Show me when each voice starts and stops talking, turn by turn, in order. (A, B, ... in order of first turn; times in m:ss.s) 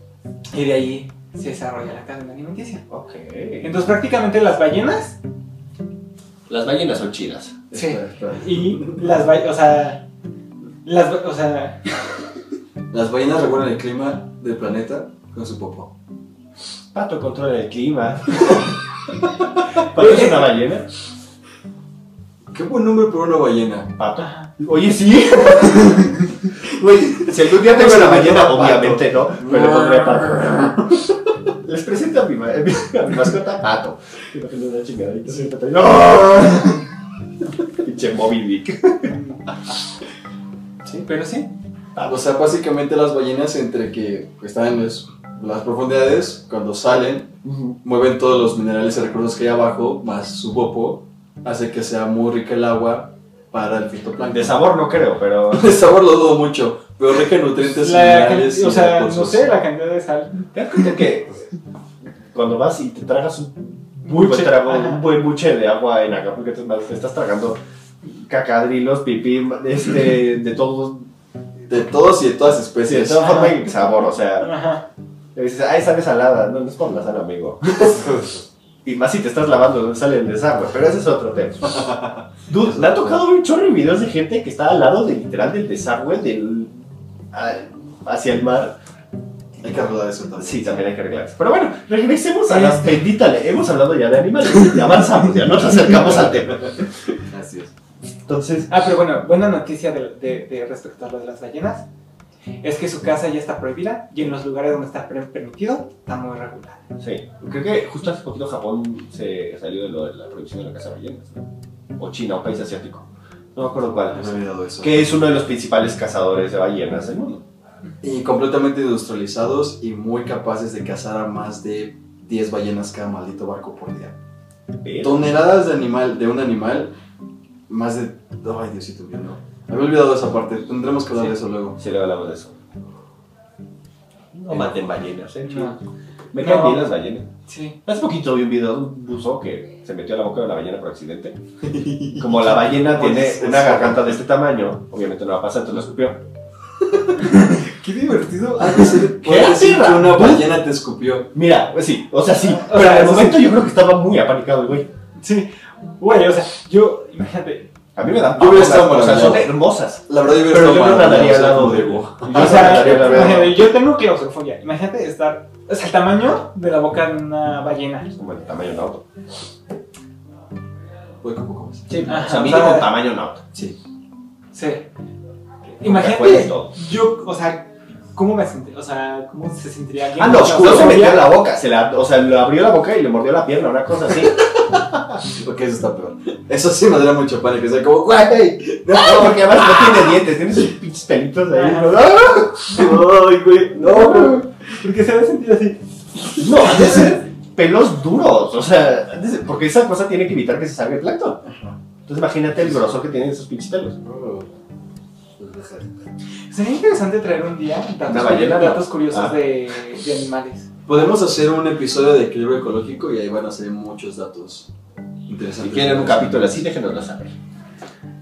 0:00.5-0:02.8 A
0:02.9-0:03.8 B
0:03.6-0:05.2 A
0:06.5-0:07.6 B
0:07.7-0:09.1 C
0:07.7-0:10.0 A
0:10.8-0:12.1 A
0:12.9-0:15.9 C
0:16.9-0:18.7 B
0:19.8-0:20.9 B
0:19.9-0:20.5 A
0:22.5-0:23.9 C
0:24.0-0:26.3 B
0:24.2-0:24.5 A
0:25.9-0:26.2 A
0:26.6-0:31.0 C
0:27.2-0:30.9 B
0:31.6-0:36.8 B
0:37.8-0:39.1 B
0:39.1-0:39.4 A
0:41.0-0:41.5 A
0:41.9-0:42.2 B
0:42.0-0:47.3 C
0:47.4-0:47.8 B
0:47.8-0:54.6 C
0:54.3-0:55.8 B
0:55.5-0:59.5 C
0:57.7-1:01.0 A
1:00.5-1:01.4 B
1:02.3-1:11.1 B
1:04.0-1:05.0 A
1:11.7-1:13.4 C
1:12.9-1:14.5 B
1:13.2-1:13.6 A
1:14.4-1:14.8 A
1:15.3-1:18.1 B
1:17.9-1:18.4 C
1:18.8-1:21.9 B
1:21.7-1:23.2 C
1:22.5-1:26.8 B
1:27.3-1:28.8 B
1:29.6-1:30.8 C
1:30.4-1:36.8 B
1:32.5-1:32.8 A
1:37.1-1:37.7 C
1:38.2-1:38.8 B
1:38.7-1:41.8 A
1:42.6-1:46.8 A
1:47.0-1:51.4 B
1:52.0-1:57.4 B
1:54.1-1:55.1 C
1:58.0-2:04.2 C
2:04.8-2:05.2 B
2:05.0-2:06.9 C
2:07.7-2:11.8 C
2:11.8-2:12.5 B
2:14.3-2:15.8 B
2:15.4-2:15.8 A
2:16.3-2:17.3 B
2:16.4-2:16.9 A
2:17.5-2:17.8 A
2:17.8-2:21.4 B
2:21.6-2:24.1 C
2:22.2-2:26.2 B
2:26.9-2:27.2 C
2:27.2-2:29.0 A
2:28.6-2:31.3 C
2:29.1-2:30.5 B
2:31.3-2:34.9 B
2:32.4-2:33.5 A
2:35.2-2:37.7 A
2:38.0-2:43.6 B
2:38.3-2:39.5 C
2:40.1-2:43.5 C
2:42.3-2:48.1 A
2:48.1-2:49.0 B
2:51.2-2:52.0 C
2:51.9-2:53.4 B
2:52.0-2:52.9 A
2:54.5-2:54.8 A
2:55.8-2:56.7 B
2:55.8-3:01.3 A
3:00.2-3:04.4 B
3:04.2-3:10.2 C
3:08.9-3:14.4 B
3:11.5-3:12.0 A
3:12.7-3:14.3 C
3:13.8-3:16.9 A
3:16.4-3:21.4 B
3:21.4-3:21.7 C
3:22.1-3:24.0 B
3:24.0-3:24.5 C
3:25.4-3:25.8 C
3:26.5-3:30.7 A
3:28.0-3:29.4 B
3:30.9-3:34.7 C
3:35.3-3:36.5 C
3:35.6-3:37.3 B